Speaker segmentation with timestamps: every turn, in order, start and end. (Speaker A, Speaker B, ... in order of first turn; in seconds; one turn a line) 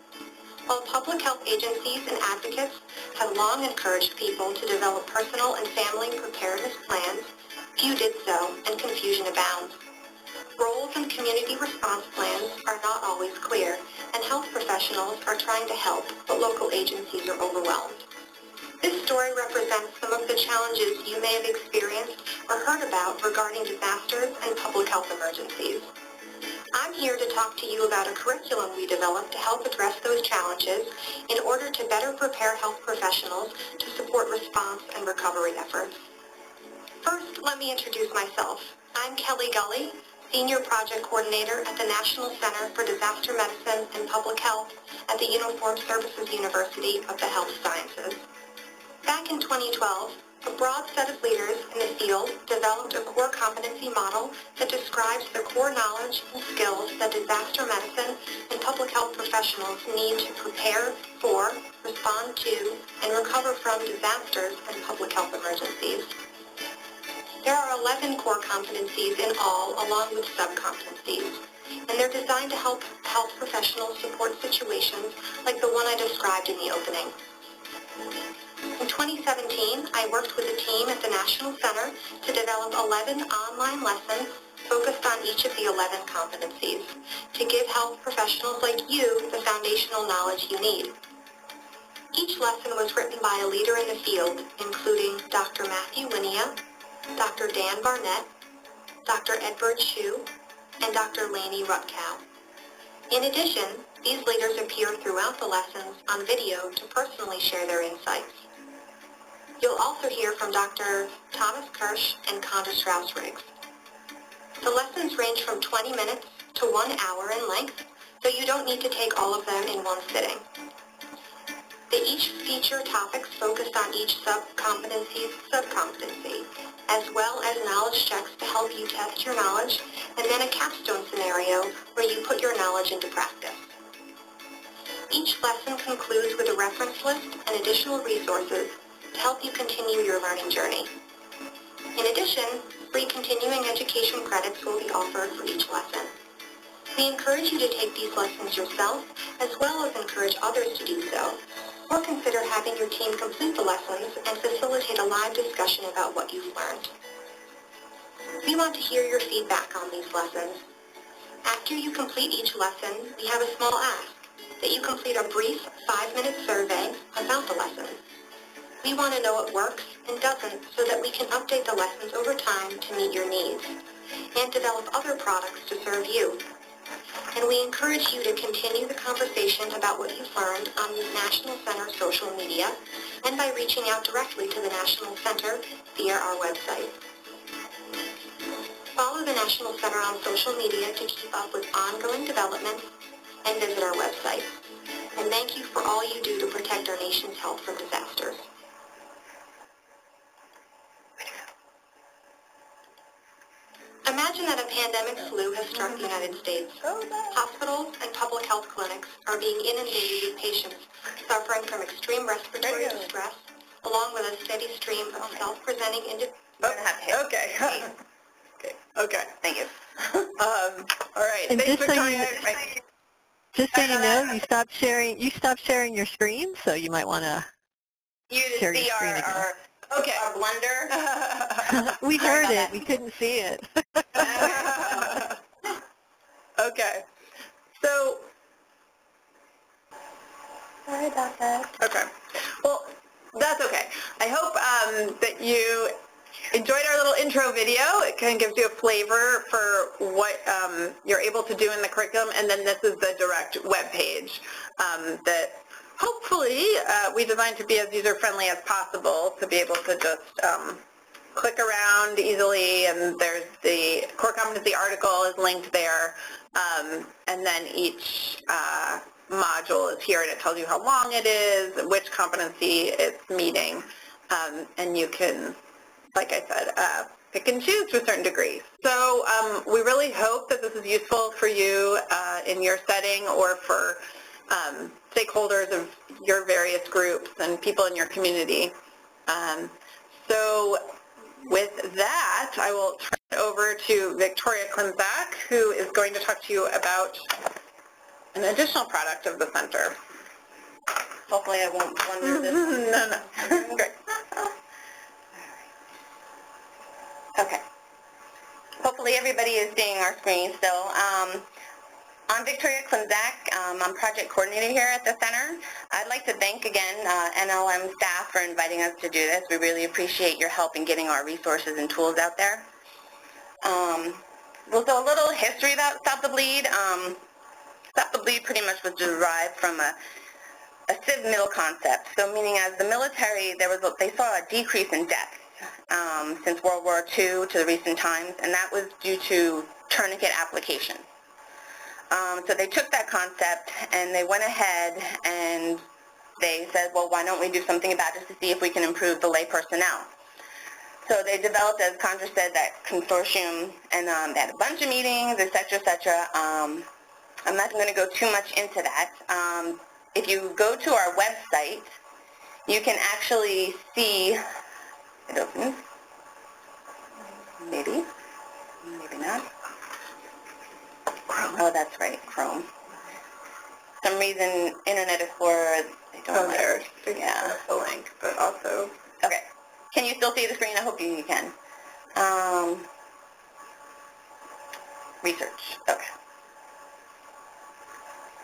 Speaker A: 0.7-9.8
Speaker A: 10.6-18.1
Speaker A: 18.8-25.9
Speaker A: 26.7-36.0
Speaker A: 37.0-48.2
Speaker A: 49.0-66.1
Speaker A: 67.4-77.2
Speaker A: 78.8-91.0
Speaker A: 92.1-96.6
Speaker A: 97.1-98.3
Speaker A: 99.0-102.2
Speaker A: 103.1-108.5
Speaker A: 109.6-113.5
Speaker A: 114.6-120.4
Speaker A: 121.9-133.7
Speaker A: 135.1-140.9
Speaker A: 141.9-146.1
Speaker A: 146.9-156.9
Speaker A: 158.4-160.6
Speaker A: 161.4-168.0
Speaker A: 168.8-173.8
Speaker A: 174.3-176.5
Speaker A: 177.3-187.0
Speaker A: 188.9-192.9
Speaker A: 193.4-194.6
Speaker A: 195.2-198.4
Speaker A: 204.0-216.4
Speaker B: 206.8-207.4
Speaker B: 212.6-213.1
Speaker B: 215.2-215.5
Speaker B: 216.6-217.9
Speaker C: 216.6-218.0
Speaker C: 218.6-219.4
Speaker B: 219.4-220.3
Speaker C: 220.4-222.8
Speaker D: 221.5-222.5
Speaker D: 223.5-227.5
Speaker C: 223.7-224.2
Speaker B: 228.3-230.9
Speaker D: 228.5-229.5
Speaker C: 229.9-230.2
Speaker C: 230.9-231.8
Speaker D: 231.7-233.7
Speaker B: 232.2-232.8
Speaker C: 234.2-235.4
Speaker B: 234.2-235.2
Speaker C: 236.6-237.1
Speaker C: 237.8-238.3
Speaker B: 240.9-241.8
Speaker C: 241.8-246.0
Speaker C: 246.5-260.8
Speaker C: 261.4-275.6
Speaker C: 276.1-288.8
Speaker C: 289.3-290.9
Speaker C: 291.4-297.3
Speaker C: 298.3-300.0
Speaker B: 301.3-304.5
Speaker C: 302.2-303.7
Speaker B: 307.4-307.6
Speaker B: 308.8-311.5
Speaker B: 312.3-322.7
Speaker B: 323.6-327.2
Speaker B: 327.9-330.0
Speaker B: 330.9-341.0
Speaker B: 342.1-345.8
Speaker B: 346.4-350.1
Speaker B: 351.1-356.9
Speaker B: 357.4-361.9
Speaker B: 362.7-364.4
Speaker B: 365.3-365.9
Speaker B: 367.6-368.1
Speaker B: 368.8-369.5
Speaker B: 371.4-372.7
Speaker B: 374.0-377.6
Speaker C: 376.3-378.9
Speaker B: 379.2-381.6
Speaker B: 382.1-382.9
Speaker B: 385.2-386.1